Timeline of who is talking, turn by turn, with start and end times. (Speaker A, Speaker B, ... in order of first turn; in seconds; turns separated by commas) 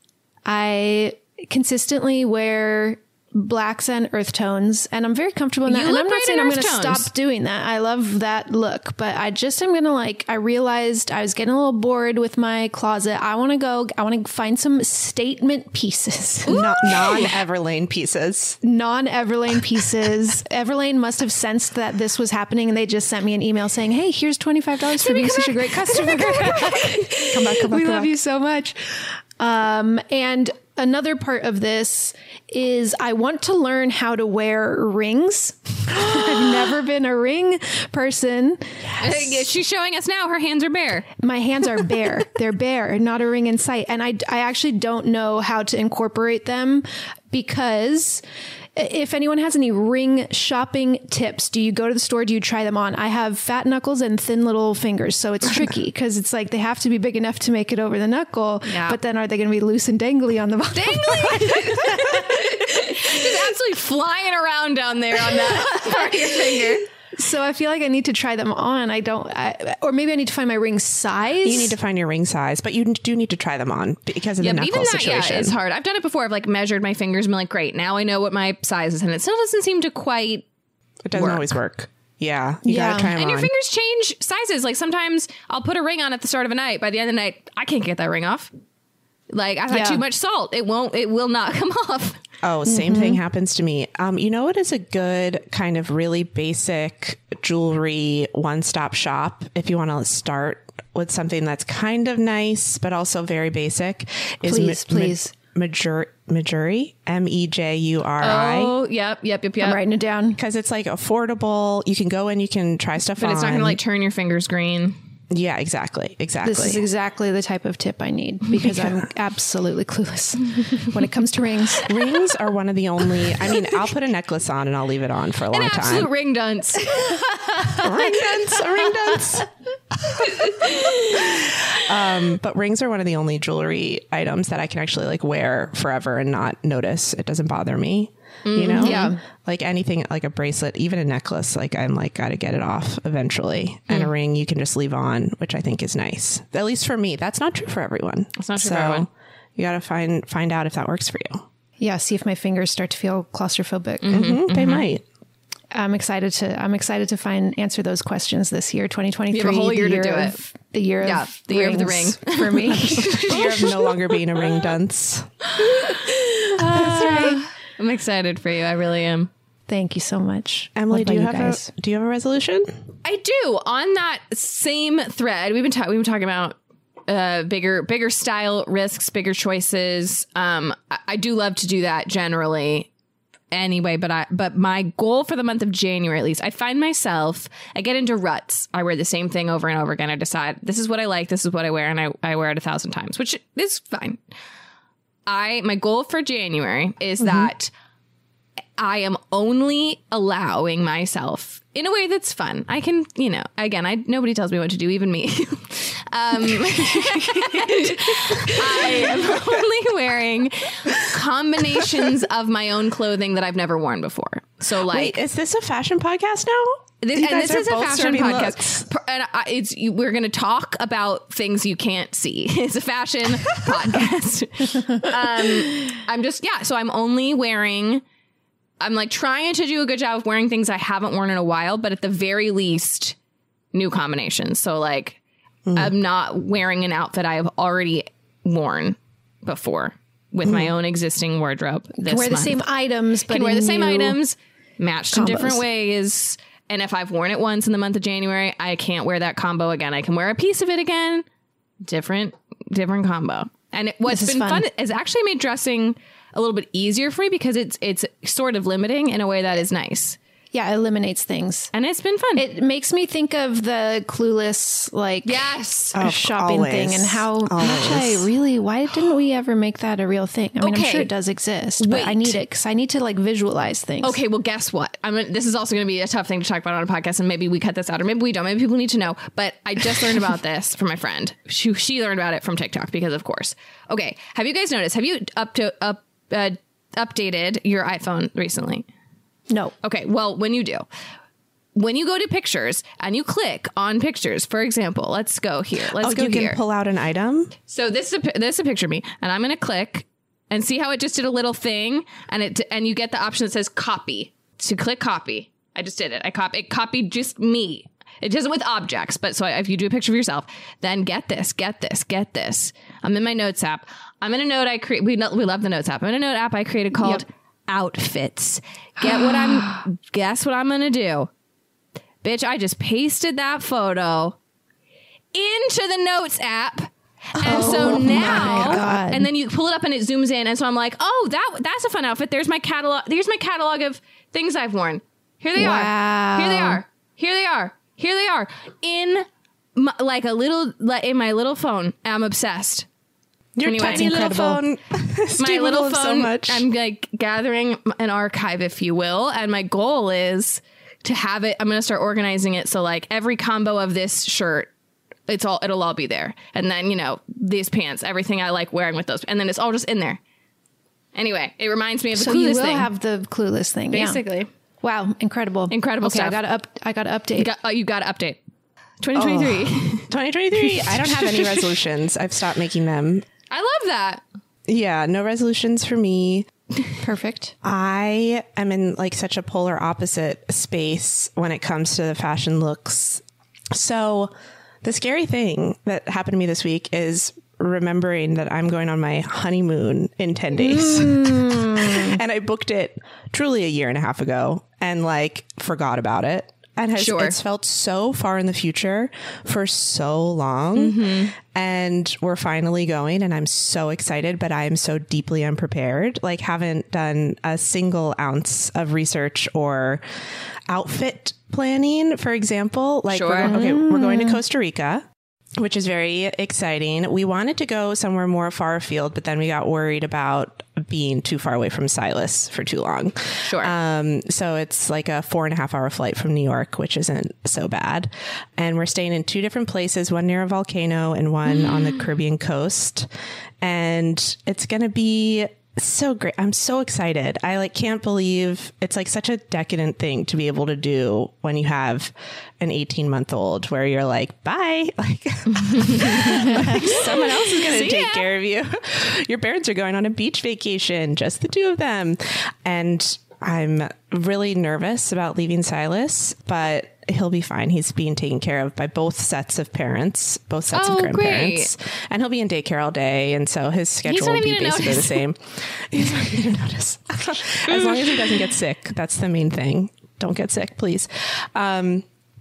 Speaker A: 0.5-16.6, Speaker B: 5.7-7.1, Speaker C: 16.5-18.6, Speaker B: 16.5-17.3, Speaker A: 18.6-39.5, Speaker B: 25.0-26.9, Speaker C: 27.3-28.1, Speaker B: 39.0-41.1, Speaker A: 41.2-48.2, Speaker A: 48.8-63.5, Speaker B: 58.7-59.0, Speaker B: 60.7-66.9, Speaker A: 65.2-71.8, Speaker C: 71.4-75.6, Speaker B: 74.4-80.5, Speaker C: 81.0-83.5, Speaker B: 81.2-81.5, Speaker A: 82.7-83.1, Speaker B: 83.1-88.5, Speaker B: 89.3-92.2, Speaker A: 89.7-90.0, Speaker C: 92.4-108.8, Speaker A: 92.7-93.2, Speaker A: 104.5-105.3, Speaker B: 108.2-109.8, Speaker A: 109.6-110.4, Speaker C: 110.4-113.8, Speaker B: 113.2-115.0, Speaker C: 115.3-116.8, Speaker A: 116.4-122.0, Speaker C: 118.6-119.1, Speaker C: 121.8-126.1, Speaker B: 125.5-127.7, Speaker C: 127.8-129.5, Speaker B: 130.3-131.4, Speaker C: 131.7-151.5, Speaker B: 138.5-139.1, Speaker A: 138.8-139.2, Speaker B: 148.4-149.1, Speaker A: 151.8-154.2, Speaker B: 154.0-154.9, Speaker C: 154.1-155.0, Speaker A: 155.7-163.3, Speaker B: 159.3-160.4, Speaker B: 161.0-163.9, Speaker C: 163.3-165.3, Speaker B: 165.6-169.3, Speaker A: 166.6-167.4, Speaker A: 169.7-171.7, Speaker C: 170.8-172.7, Speaker B: 173.0-182.9, Speaker B: 183.5-194.2, Speaker B: 195.3-197.7, Speaker A: 197.2-197.5, Speaker B: 198.8-215.2, Speaker C: 208.8-209.6, Speaker C: 211.8-212.1, Speaker C: 214.8-218.9, Speaker B: 217.0-228.0, Speaker A: 225.7-225.9, Speaker B: 228.8-233.2, Speaker B: 233.7-235.2, Speaker C: 235.7-235.9, Speaker B: 235.8-242.6, Speaker C: 240.4-240.7, Speaker A: 242.1-244.2, Speaker B: 243.3-251.2, Speaker A: 245.1-245.6, Speaker B: 251.8-260.2, Speaker A: 254.1-254.7, Speaker A: 260.5-261.7, Speaker B: 261.7-262.5, Speaker A: 262.4-274.2, Speaker B: 265.2-266.0, Speaker C: 265.9-268.3, Speaker B: 270.6-271.1, Speaker B: 271.8-272.4, Speaker B: 274.0-288.9, Speaker B: 289.8-290.9, Speaker B: 291.8-296.6, Speaker C: 295.9-297.5, Speaker B: 297.7-321.3, Speaker A: 317.0-317.2, Speaker A: 319.0-319.9, Speaker B: 322.2-324.4, Speaker B: 325.3-342.9, Speaker A: 327.4-329.3, Speaker C: 327.5-328.9, Speaker A: 335.6-336.8, Speaker C: 343.6-346.7, Speaker B: 343.6-344.6, Speaker B: 345.4-354.7, Speaker B: 355.3-360.2, Speaker B: 361.1-362.9, Speaker A: 362.1-364.2, Speaker B: 363.9-364.5, Speaker A: 364.8-367.5, Speaker B: 365.7-366.4, Speaker B: 367.4-368.4, Speaker B: 369.0-370.1, Speaker C: 369.1-373.2, Speaker B: 373.5-374.2, Speaker C: 374.7-376.5, Speaker A: 377.0-377.5, Speaker C: 377.6-383.2, Speaker C: 383.7-410.0, Speaker A: 390.6-392.2, Speaker B: 397.0-397.4, Speaker B: 400.8-401.3, Speaker C: 410.7-415.1, Speaker B: 413.1-413.6, Speaker A: 413.4-414.4, Speaker C: 415.6-433.1, Speaker B: 423.5-423.7, Speaker B: 431.6-432.0, Speaker C: 433.6-472.1, Speaker B: 445.6-448.3, Speaker B: 460.7-461.7, Speaker B: 464.1-465.2, Speaker B: 467.7-468.4